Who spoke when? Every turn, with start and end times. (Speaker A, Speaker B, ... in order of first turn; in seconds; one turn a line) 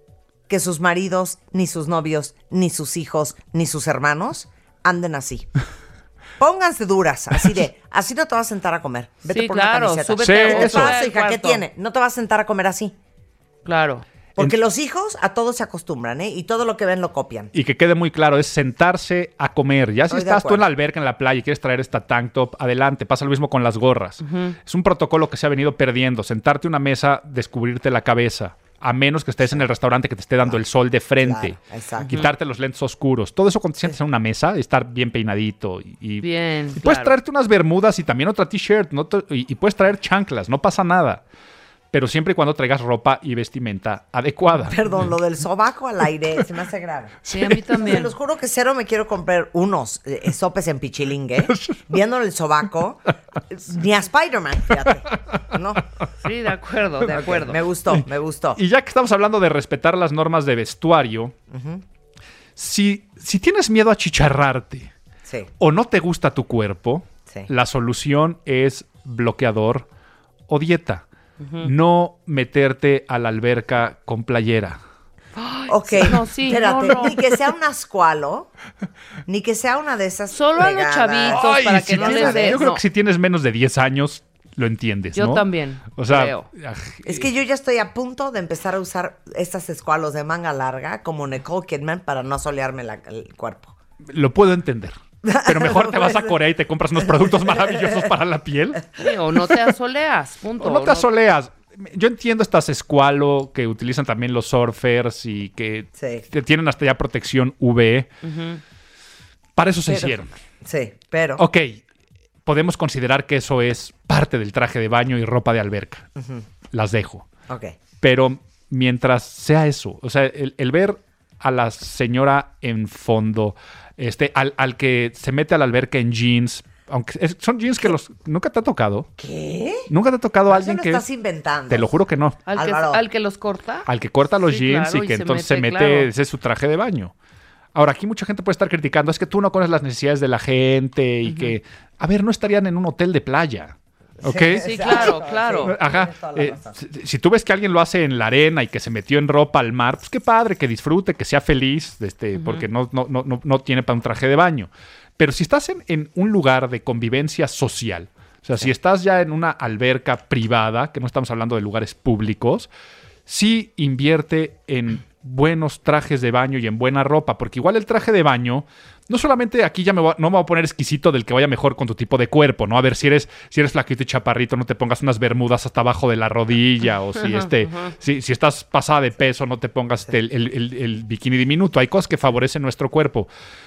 Speaker A: 0.5-5.5
Speaker A: 6.4-12.9
Speaker B: 9.3-11.6
Speaker C: 10.2-10.9
Speaker B: 13.7-14.0
Speaker A: 14.4-17.5
Speaker C: 17.5-31.6
Speaker A: 20.1-20.6
Speaker B: 24.2-24.6
Speaker A: 31.2-32.3
Speaker B: 32.0-32.3
Speaker C: 32.1-41.2
Speaker B: 36.2-37.1
Speaker C: 41.9-44.7
Speaker A: 44.7-47.1
Speaker C: 47.2-47.5
Speaker B: 47.3-48.1
Speaker A: 47.8-53.0
Speaker C: 51.5-51.8
Speaker A: 53.5-55.8
Speaker B: 56.2-57.6
Speaker A: 57.1-58.6
Speaker C: 58.5-61.3
Speaker A: 61.5-61.8
Speaker C: 62.5-64.9
Speaker C: 65.6-69.9
Speaker C: 70.5-71.0
Speaker B: 71.4-71.7
Speaker C: 71.6-74.8
Speaker B: 75.4-77.2
Speaker A: 75.7-78.5
Speaker A: 79.3-81.4
Speaker B: 80.3-82.8
Speaker C: 81.3-87.3
Speaker A: 81.9-82.6
Speaker B: 85.1-86.5
Speaker A: 87.0-93.7
Speaker C: 94.1-98.8
Speaker A: 95.2-96.3
Speaker B: 99.0-101.1
Speaker C: 100.6-108.1
Speaker A: 106.0-106.2
Speaker B: 108.2-108.6
Speaker C: 109.5-110.3
Speaker A: 109.9-111.4
Speaker C: 111.4-111.8
Speaker C: 112.4-116.1
Speaker A: 116.2-116.4
Speaker C: 116.7-117.3
Speaker A: 117.5-117.8
Speaker C: 118.0-129.1
Speaker A: 129.2-129.9
Speaker C: 129.9-131.0
Speaker A: 130.5-131.9
Speaker C: 131.7-132.5
Speaker B: 132.5-133.8
Speaker A: 132.5-133.0
Speaker C: 133.8-137.1
Speaker B: 134.4-136.1
Speaker C: 137.7-162.7
Speaker B: 141.2-141.6
Speaker A: 144.2-146.7
Speaker B: 144.6-145.7
Speaker B: 152.3-152.6
Speaker C: 163.2-183.3
Speaker B: 177.2-177.9